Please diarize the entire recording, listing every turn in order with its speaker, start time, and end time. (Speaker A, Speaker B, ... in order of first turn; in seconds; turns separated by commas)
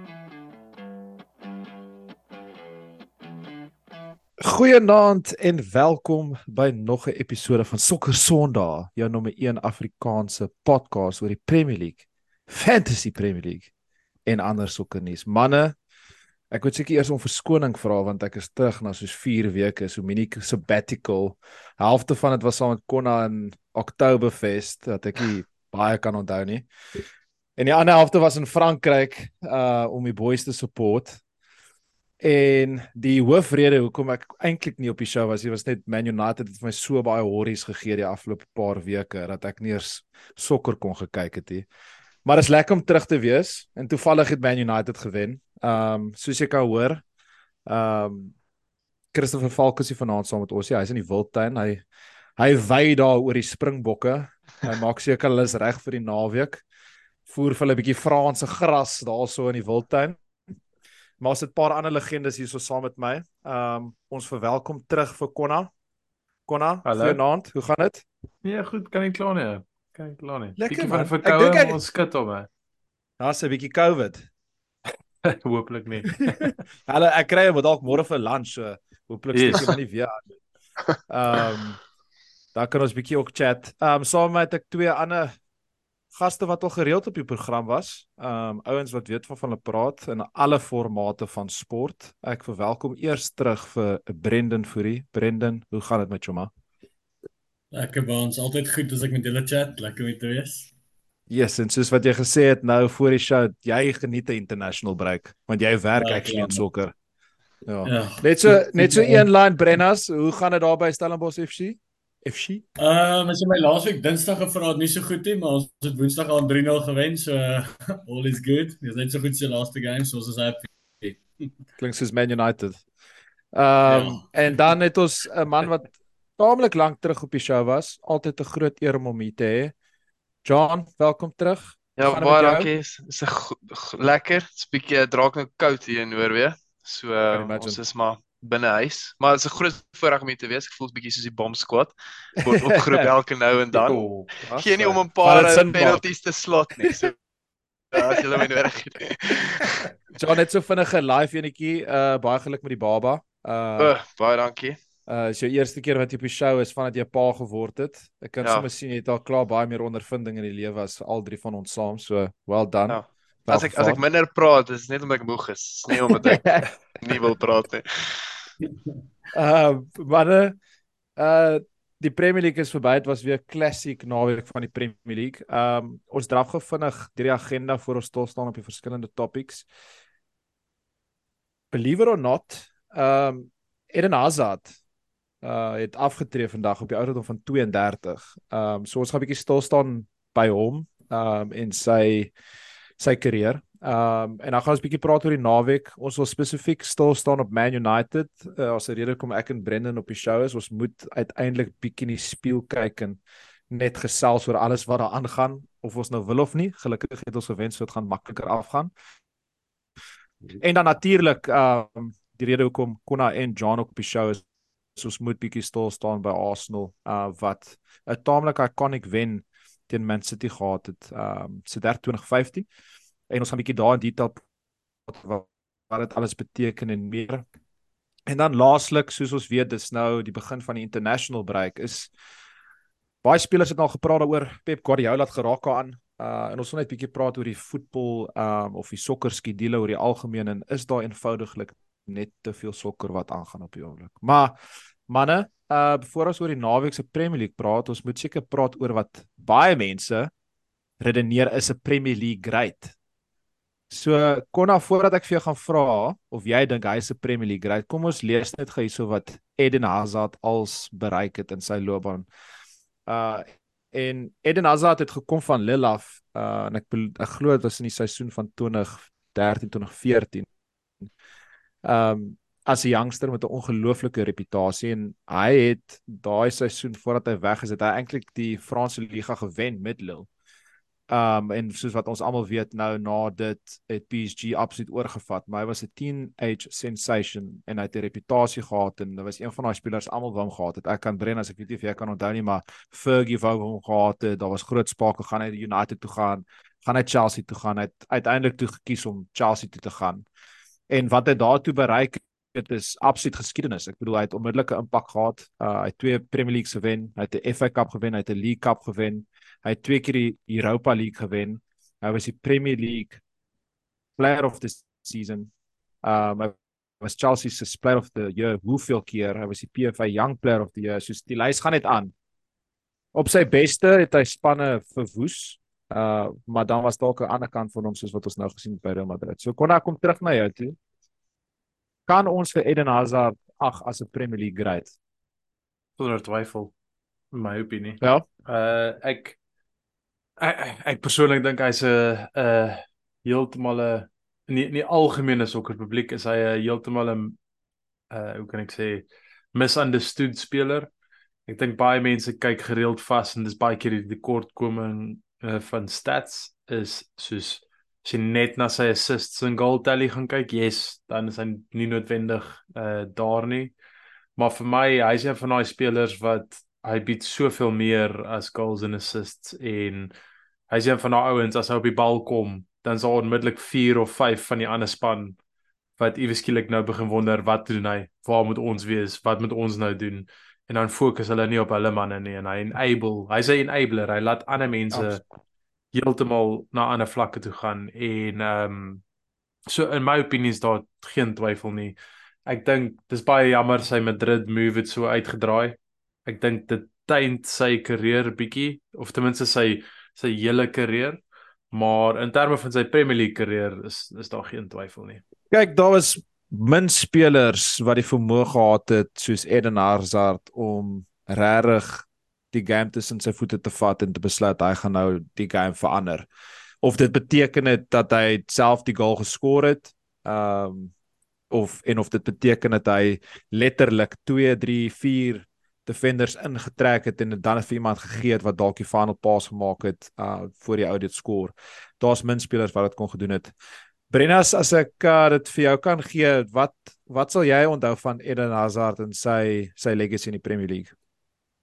Speaker A: 4.4-13.7, Speaker A: 14.3-15.8, Speaker A: 16.5-26.7, Speaker A: 27.6-31.2, Speaker A: 32.2-41.7, Speaker A: 42.2-47.0, Speaker A: 47.7-48.3, Speaker A: 49.1-51.8, Speaker A: 52.4-56.6, Speaker A: 57.3-60.2, Speaker A: 61.2-65.7, Speaker A: 66.5-68.0, Speaker B: 66.8-67.2, Speaker B: 68.4-72.5, Speaker A: 70.6-71.8, Speaker A: 73.2-74.3, Speaker B: 75.2-76.5, Speaker A: 76.1-80.3, Speaker B: 79.3-79.7, Speaker A: 81.1-81.8, Speaker A: 82.5-85.4, Speaker A: 86.1-96.5, Speaker C: 97.7-100.7, Speaker A: 101.3-106.9, Speaker C: 106.0-106.6, Speaker A: 107.7-112.6, Speaker C: 107.8-109.3, Speaker C: 112.8-121.2, Speaker A: 121.8-122.8, Speaker A: 123.5-129.7, Speaker C: 123.9-124.2, Speaker A: 130.4-132.7, Speaker D: 132.0-147.1, Speaker A: 137.3-137.8, Speaker A: 142.5-143.1, Speaker B: 143.8-144.3, Speaker A: 144.4-146.0, Speaker D: 147.9-149.8, Speaker A: 148.0-148.6, Speaker A: 149.6-153.9, Speaker D: 153.8-154.8, Speaker A: 155.1-164.0, Speaker D: 158.4-158.7, Speaker D: 162.9-168.2, Speaker A: 165.9-167.3, Speaker A: 169.3-170.6, Speaker A: 171.2-179.7, Speaker A: 181.7-184.8, Speaker A: 185.4-192.3, Speaker A: 193.0-203.2, Speaker A: 203.7-208.9, Speaker A: 210.5-214.4, Speaker A: 215.0-222.7, Speaker A: 223.3-224.4, Speaker A: 225.1-227.4, Speaker A: 228.3-232.1, Speaker A: 233.2-244.6, Speaker A: 245.1-250.3, Speaker A: 251.0-252.9, Speaker A: 253.9-262.3, Speaker A: 263.1-270.5, Speaker A: 271.8-280.3, Speaker A: 281.1-300.2, Speaker A: 300.9-313.2, Speaker A: 314.2-315.5, Speaker A: 316.0-322.1, Speaker A: 323.1-330.8, Speaker A: 332.1-334.9, Speaker B: 336.0-336.7, Speaker B: 337.3-339.4, Speaker B: 340.4-347.4, Speaker B: 348.1-350.9, Speaker B: 351.5-363.7, Speaker B: 364.4-370.1, Speaker B: 370.7-375.4, Speaker B: 376.0-385.2, Speaker A: 384.9-385.2, Speaker B: 385.9-389.0, Speaker B: 389.7-405.2, Speaker A: 405.5-416.3, Speaker A: 416.8-420.9, Speaker A: 421.5-433.5, Speaker A: 434.1-440.9